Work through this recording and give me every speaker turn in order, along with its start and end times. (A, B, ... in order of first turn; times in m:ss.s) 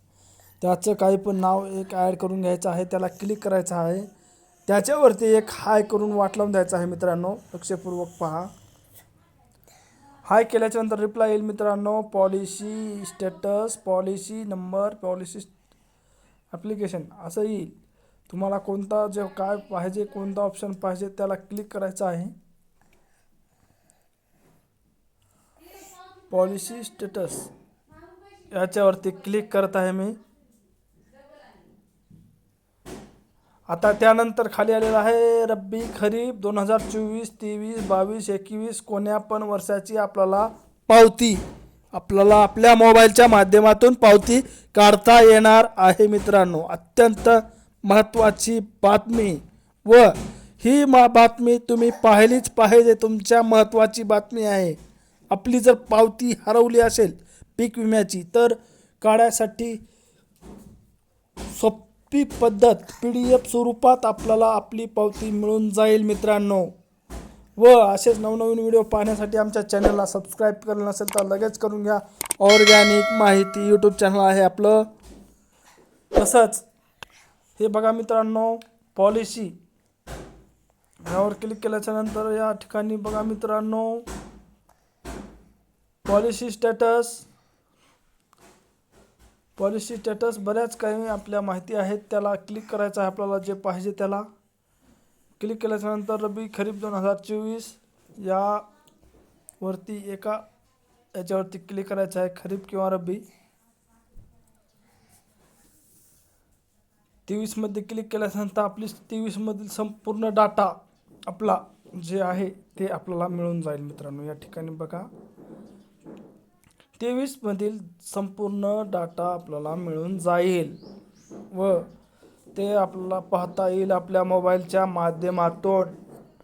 0:00.6-0:04.1 A
0:04.7-0:08.5 A
0:10.2-0:15.5 A
0:16.5-0:17.7 A
0:18.3-0:22.3 A
0:26.3-0:27.5 A
0:28.5-0:30.2 A
0:33.7-0:41.4 A
0:41.9-0:54.8 A
0:55.3-0:59.8 A
1:01.5-1:06.7 A
1:07.6-1:14.9 A
1:16.1-1:16.7 A
1:17.6-1:19.5 A
1:21.0-1:24.0 A
1:26.0-1:27.3 A
1:29.6-1:34.3 A
1:35.4-1:38.6 A
1:39.6-1:40.4 A
1:41.1-1:43.2 A
1:47.3-1:55.1 A
1:57.0-2:00.8 A
2:01.5-2:01.9 A
2:02.5-2:05.9 A